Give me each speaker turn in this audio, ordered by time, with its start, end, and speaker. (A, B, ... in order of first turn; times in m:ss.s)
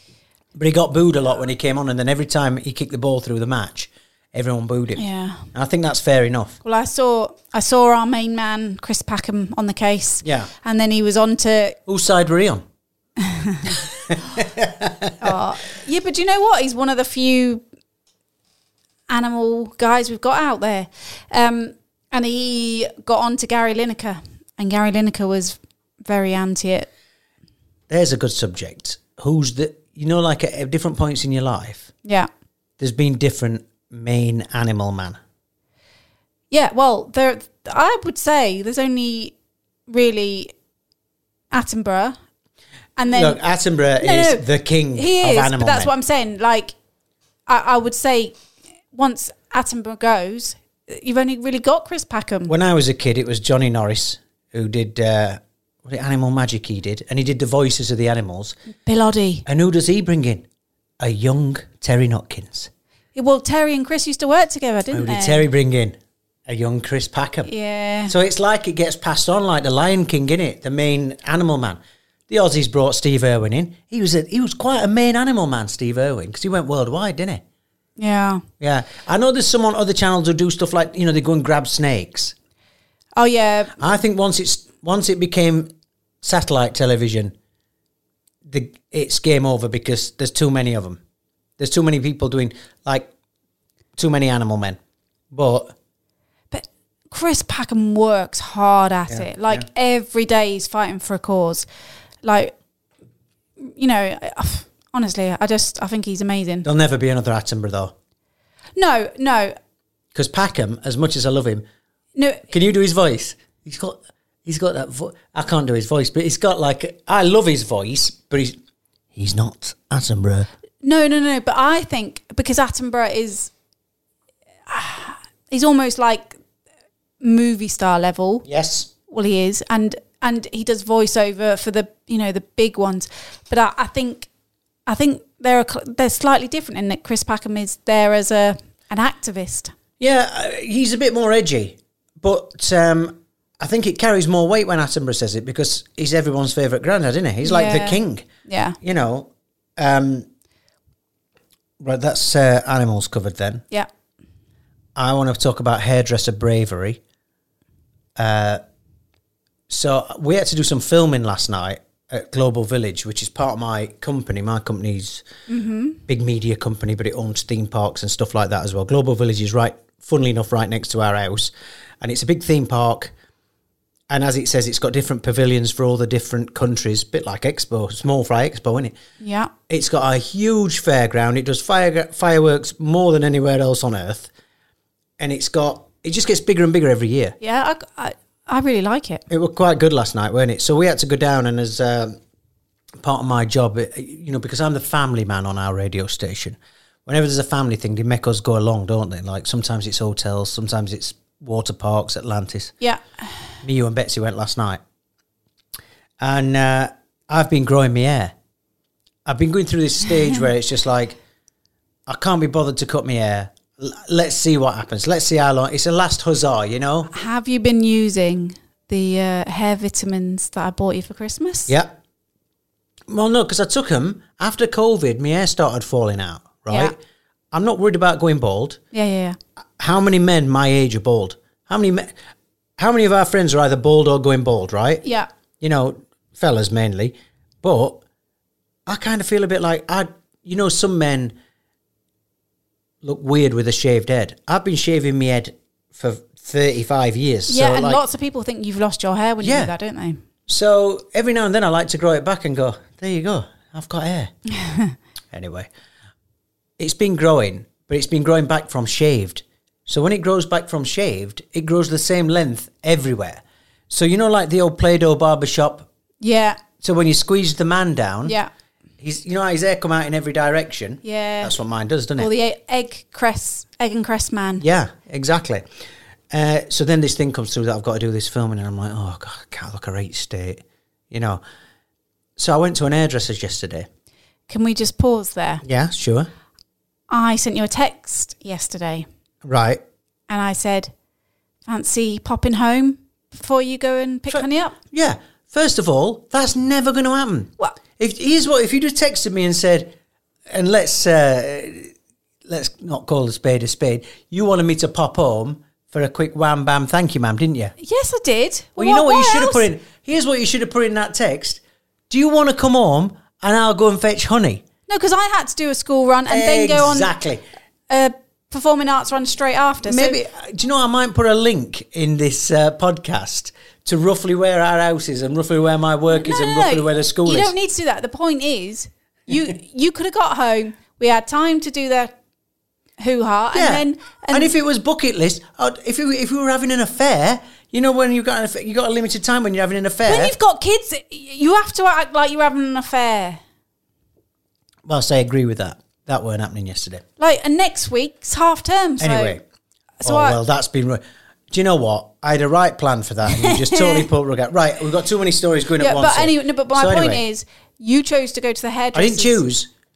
0:00.6-0:06.6 A
0:05.0-0:05.5 B
0:06.6-0:11.8 B
0:10.2-0:10.5 A
0:11.9-0:12.6 A
0:13.2-0:13.6 B
0:14.1-0:15.4 A
0:15.2-0:17.6 B
0:19.1-0:26.9 B
0:27.9-0:31.9 A
0:32.8-0:35.2 A
0:36.5-0:39.3 B
0:39.9-0:40.5 B
0:41.5-0:42.2 B
0:43.0-0:43.4 B
0:43.1-0:45.9 A
0:44.0-0:46.7 B
0:47.5-0:48.4 B
0:48.9-0:52.5 B
0:52.5-0:58.6 A
0:58.8-0:59.4 B
0:59.5-1:00.5 A
1:01.0-1:02.7 A
1:03.2-1:05.5 B
1:04.9-1:07.5 A
1:07.5-1:08.1 B
1:08.1-1:17.4 A
1:18.0-1:18.4 B
1:18.6-1:22.4 A
1:23.2-1:23.8 B
1:23.8-1:27.3 A
1:28.5-1:31.0 A
1:31.6-1:33.1 A
1:34.0-1:34.8 A
1:35.3-1:35.8 A
1:36.5-1:41.7 B
1:39.1-1:39.7 A
1:42.2-1:42.5 B
1:43.6-1:46.7 B
1:46.6-1:47.9 A
1:48.8-1:49.6 B
1:50.1-1:51.6 A
1:52.2-1:52.5 B
1:52.5-1:58.6 A
1:59.1-2:00.5 A
2:00.8-2:03.5 B
2:04.7-2:06.4 B
2:07.2-2:08.4 B
2:08.4-2:08.9 A
2:09.1-2:14.3 B
2:14.9-2:19.7 B
2:20.0-2:28.3 A
2:27.4-2:28.8 B
2:28.8-2:30.3 A
2:31.8-2:33.6 A
2:35.0-2:37.0 A
2:38.2-2:38.6 A
2:39.7-2:45.2 A
2:45.5-2:46.0 B
2:46.1-2:53.1 A
2:54.1-2:59.0 A
2:59.2-2:59.5 B
2:59.7-3:04.3 A
3:05.2-3:07.4 A
3:07.4-3:09.2 B
3:09.3-3:12.2 A
3:13.0-3:22.7 A
3:22.8-3:23.4 B
3:23.6-3:24.8 A
3:26.2-3:28.3 A
3:29.3-3:31.2 A
3:32.1-3:37.1 A
3:37.1-3:41.7 B
3:41.7-3:42.0 A
3:43.1-3:47.0 A
3:46.7-3:46.9 B
3:47.5-3:48.8 A
3:48.9-3:49.4 B
3:49.8-3:52.1 A
3:52.8-3:55.0 A
3:55.0-3:55.3 B
3:55.6-3:58.0 A
3:58.9-4:01.4 A
4:03.0-4:08.0 A
4:07.5-4:10.2 B
4:09.4-4:09.7 A
4:10.5-4:14.3 A
4:14.6-4:15.0 B
4:15.3-4:15.7 A
4:16.8-4:25.9 A
4:26.2-4:26.6 B
4:26.8-4:28.4 A
4:29.0-4:32.3 A
4:31.0-4:31.6 B
4:32.2-4:34.6 B
4:34.6-4:35.7 A
4:36.3-4:41.4 A
4:42.4-4:43.9 A
4:44.5-4:45.6 B
4:45.6-4:46.3 A
4:47.1-4:49.1 B
4:49.4-4:49.8 A
4:50.3-4:50.9 B
4:51.7-4:54.8 B
4:54.3-5:00.0 A
5:00.5-5:01.9 A
5:02.5-5:07.8 A
5:07.8-5:09.7 B
5:08.8-5:14.6 A
5:14.9-5:17.1 B
5:16.3-5:17.4 A
5:17.9-5:20.2 B
5:19.8-5:27.5 A
5:26.1-5:32.2 B
5:33.0-5:34.5 B
5:33.5-5:40.4 A
5:40.1-5:43.4 B
5:44.9-5:47.0 A
5:47.2-5:49.4 B
5:49.0-5:49.4 A
5:50.0-5:50.4 B
5:50.0-5:57.2 A
5:53.3-5:54.1 B
5:55.8-5:59.5 B
5:58.9-5:59.7 A